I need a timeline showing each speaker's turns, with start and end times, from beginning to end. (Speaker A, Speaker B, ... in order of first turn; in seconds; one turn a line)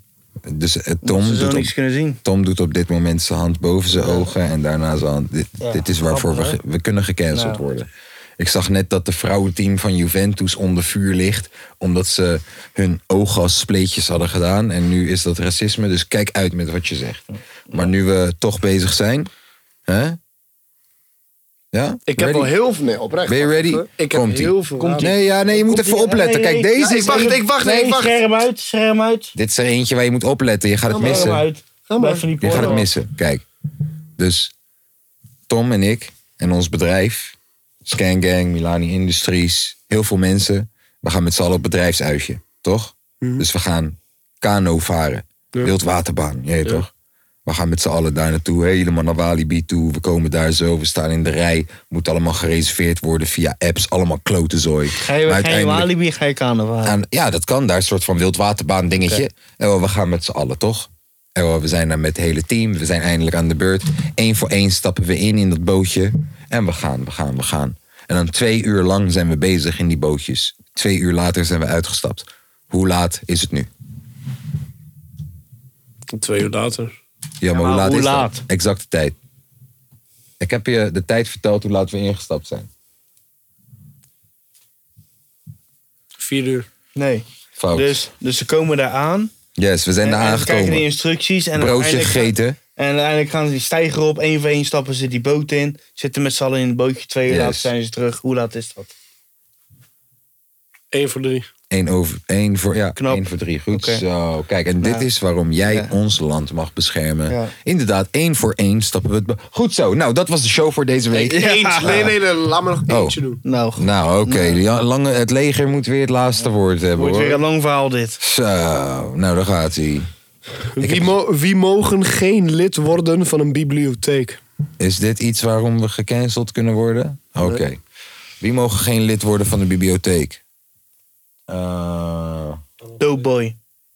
Speaker A: 0.4-1.7
Speaker B: 1.0-2.2
Speaker A: 2.2-7.9
Speaker B: 4.0-4.2
Speaker B: 5.6-6.6
Speaker B: 7.3-7.6
Speaker A: 8.4-19.3
Speaker A: 19.9-20.2
Speaker A: 21.7-22.5
Speaker C: 22.1-25.1
Speaker A: 23.3-27.4
Speaker B: 24.8-29.3
Speaker C: 26.8-28.2
Speaker A: 29.3-31.4
Speaker C: 30.9-32.8
Speaker B: 31.0-32.9
Speaker A: 32.4-33.4
Speaker A: 34.2-34.5
Speaker A: 35.5-46.9
Speaker A: 47.5-55.9
Speaker B: 55.0-57.0
Speaker A: 56.8-73.7
Speaker C: 76.1-76.9
Speaker A: 77.4-79.2
Speaker B: 77.5-78.4
Speaker A: 80.4-82.7
Speaker C: 86.2-86.7
Speaker B: 87.0-89.3
Speaker A: 87.6-88.0
Speaker A: 89.6-90.8
Speaker B: 90.0-98.9
Speaker A: 91.5-92.6
Speaker A: 97.3-97.7
Speaker C: 100.9-101.5
Speaker A: 101.7-112.2
Speaker B: 103.0-104.0
Speaker B: 105.6-105.9
Speaker C: 111.1-113.4
Speaker B: 111.3-111.9
Speaker A: 112.9-113.2
Speaker B: 113.4-114.6
Speaker A: 113.8-117.4
Speaker B: 117.0-118.2
Speaker A: 118.2-120.1
Speaker C: 120.8-124.4
Speaker A: 120.8-121.2
Speaker A: 124.8-127.8
Speaker A: 128.4-130.4
Speaker A: 131.5-132.6
Speaker B: 133.0-133.6